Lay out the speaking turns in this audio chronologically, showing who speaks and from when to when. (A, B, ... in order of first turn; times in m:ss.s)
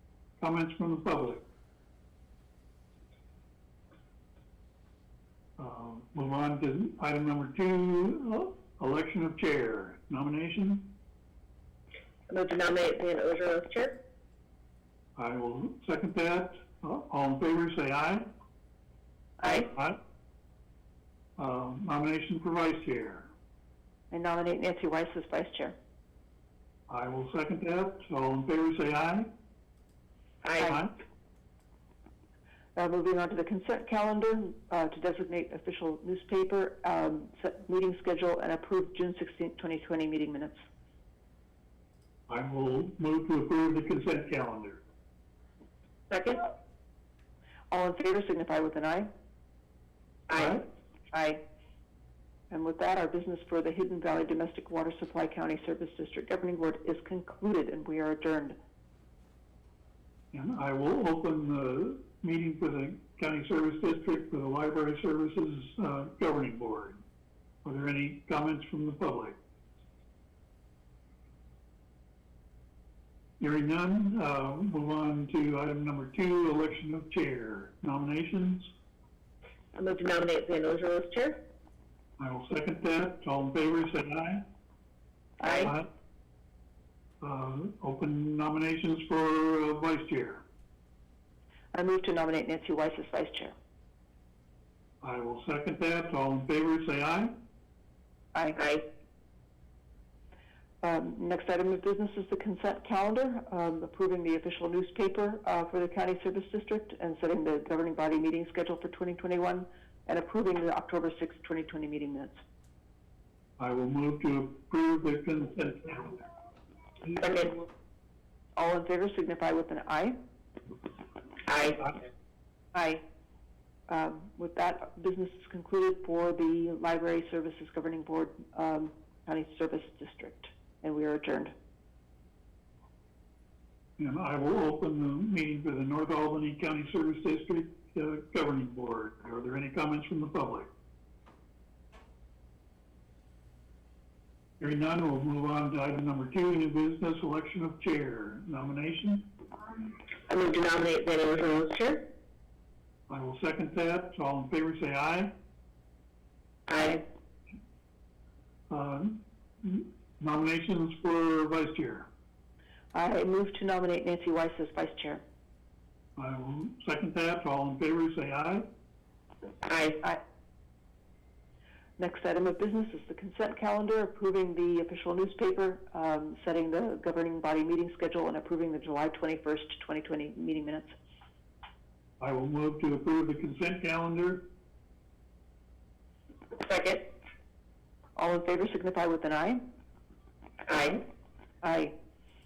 0:00.4-0:01.4 A
0:05.6-0:10.9 A
0:12.3-0:14.0 B
0:15.2-0:18.3 A
0:19.4-0:19.7 B
0:19.7-0:20.0 A
0:21.4-0:23.3 A
0:24.1-0:25.8 C
0:26.9-0:29.3 A
0:30.4-0:30.8 B
0:30.6-0:30.9 A
0:32.8-0:40.6 C
0:42.3-0:44.8 A
0:46.1-0:46.5 B
0:47.7-0:49.1 C
0:50.3-0:50.6 B
0:50.3-0:50.6 A
0:51.1-0:51.4 C
0:52.5-0:58.6 C
1:00.3-1:07.0 A
1:07.6-1:09.4 A
1:13.4-1:18.7 A
1:19.7-1:21.4 B
1:22.2-1:24.5 A
1:25.4-1:25.7 B
1:27.2-1:30.4 A
1:31.7-1:33.5 C
1:35.0-1:37.4 A
1:38.3-1:38.6 C
1:38.6-1:38.8 B
1:40.8-1:52.4 C
1:53.6-1:56.3 A
1:57.1-1:57.6 B
1:58.6-2:00.2 C
2:01.4-2:01.9 B
2:02.7-2:03.0 C
2:03.9-2:11.5 C
2:14.0-2:20.7 A
2:24.6-2:29.3 A
2:30.3-2:32.0 B
2:33.1-2:35.3 A
2:36.7-2:37.0 B
2:38.7-2:42.1 A
2:42.9-2:45.2 C
2:46.2-2:48.7 A
2:49.6-2:50.0 B
2:52.0-3:00.9 C
3:02.2-3:04.5 A
3:06.6-3:07.1 B
3:08.2-3:09.6 C
3:10.7-3:11.0 B
3:11.6-3:11.9 C